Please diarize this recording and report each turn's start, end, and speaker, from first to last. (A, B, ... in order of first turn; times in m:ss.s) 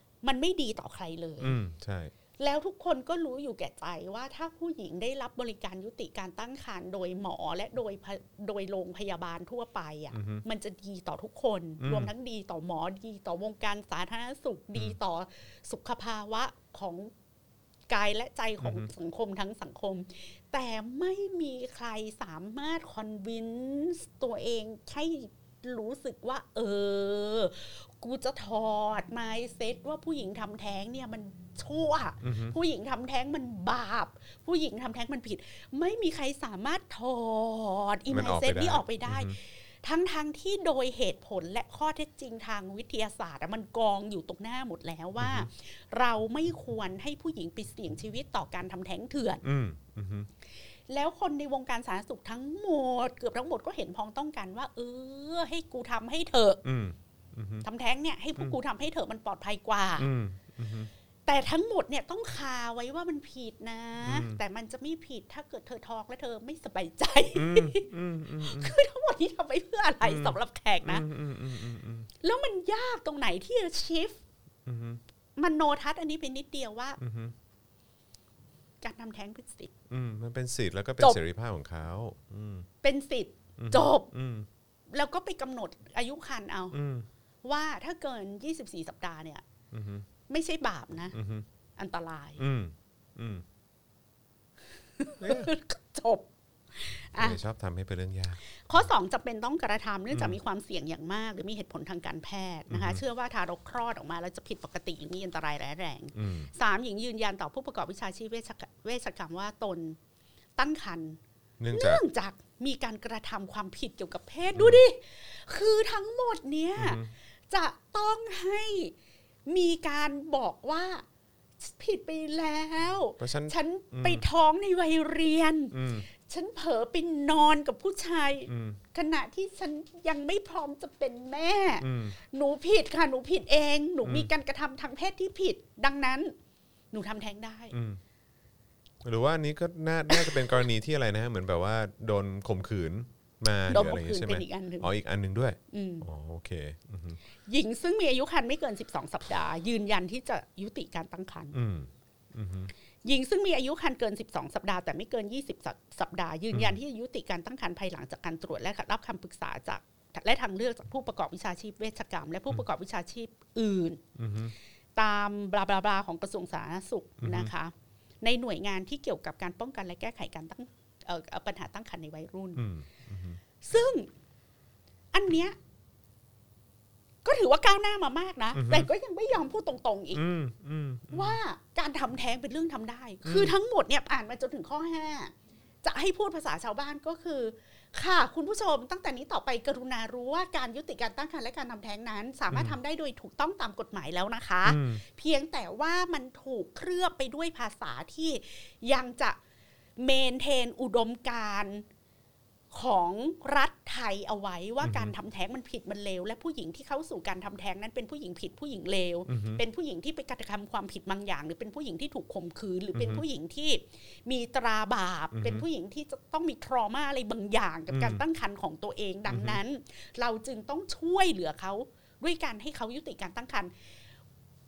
0:00.2-0:01.6 A
0:01.4-0:02.1 B
0:02.4-0:17.1 A
0:10.1-0:10.4 B
0:11.8-0:12.1 B
0:17.9-0:49.4 A
0:18.6-0:18.9 B
0:32.2-0:32.6 B
0:38.1-0:39.4 B
0:45.2-0:45.5 B
0:49.4-0:50.3 B
0:50.9-0:56.6 A
0:56.6-0:57.7 B
0:57.6-1:00.1 A
1:00.0-1:00.9 B
1:01.3-1:11.1 A
1:04.0-1:04.4 B
1:07.4-1:08.8 B
1:10.0-1:12.1 B
1:12.2-1:14.2 A
1:14.7-1:15.0 B
1:15.4-1:17.0 A
1:17.0-1:17.4 B
1:18.8-1:19.7 A
1:19.9-1:22.7 B
1:22.8-1:24.1 A
1:23.6-1:24.5 B
1:24.9-1:26.8 A
1:26.7-1:27.1 B
1:27.4-1:29.4 A
1:29.7-1:30.1 B
1:30.3-1:31.2 A
1:31.1-1:31.5 B
1:31.8-1:32.4 A
1:32.4-1:33.4 B
1:35.0-1:37.4 A
1:35.2-1:35.5 B
1:37.2-1:38.8 B
1:38.6-1:50.0 A
1:40.1-1:40.4 B
1:42.7-1:43.0 B
1:46.2-1:46.5 B
1:50.6-1:51.2 A
1:51.6-1:52.0 B
1:51.7-1:58.9 A
1:54.6-1:54.8 B
1:56.8-1:57.1 B
1:59.5-2:01.0 A
2:01.6-2:16.3 A
2:03.2-2:04.2 B
2:05.7-2:06.1 B
2:08.5-2:08.8 B
2:11.8-2:12.2 B
2:14.0-2:14.3 B
2:16.9-2:17.7 A
2:17.7-2:18.0 B
2:19.0-2:27.2 B
2:20.1-2:20.5 A
2:23.7-2:24.9 A
2:25.7-2:26.1 A
2:27.5-2:31.6 A
2:31.5-2:32.7 B
2:33.0-2:44.0 A
2:36.5-2:36.8 B
2:44.2-2:44.5 B
2:45.0-2:52.7 A
2:47.2-2:47.5 B
2:52.6-2:53.4 B
2:53.6-2:54.1 A
2:55.1-2:55.6 A
2:57.2-3:00.2 A
2:58.5-2:58.9 B
3:00.2-3:01.4 B
3:01.1-3:19.4 A
3:03.2-3:03.6 B
3:12.5-3:12.8 B
3:14.6-3:15.0 B
3:20.0-3:21.9 A
3:22.7-3:43.7 A
3:24.8-3:25.1 B
3:29.3-3:29.6 B
3:33.0-3:33.2 B
3:35.3-3:35.6 B
3:37.9-3:38.2 B
3:39.3-3:39.6 B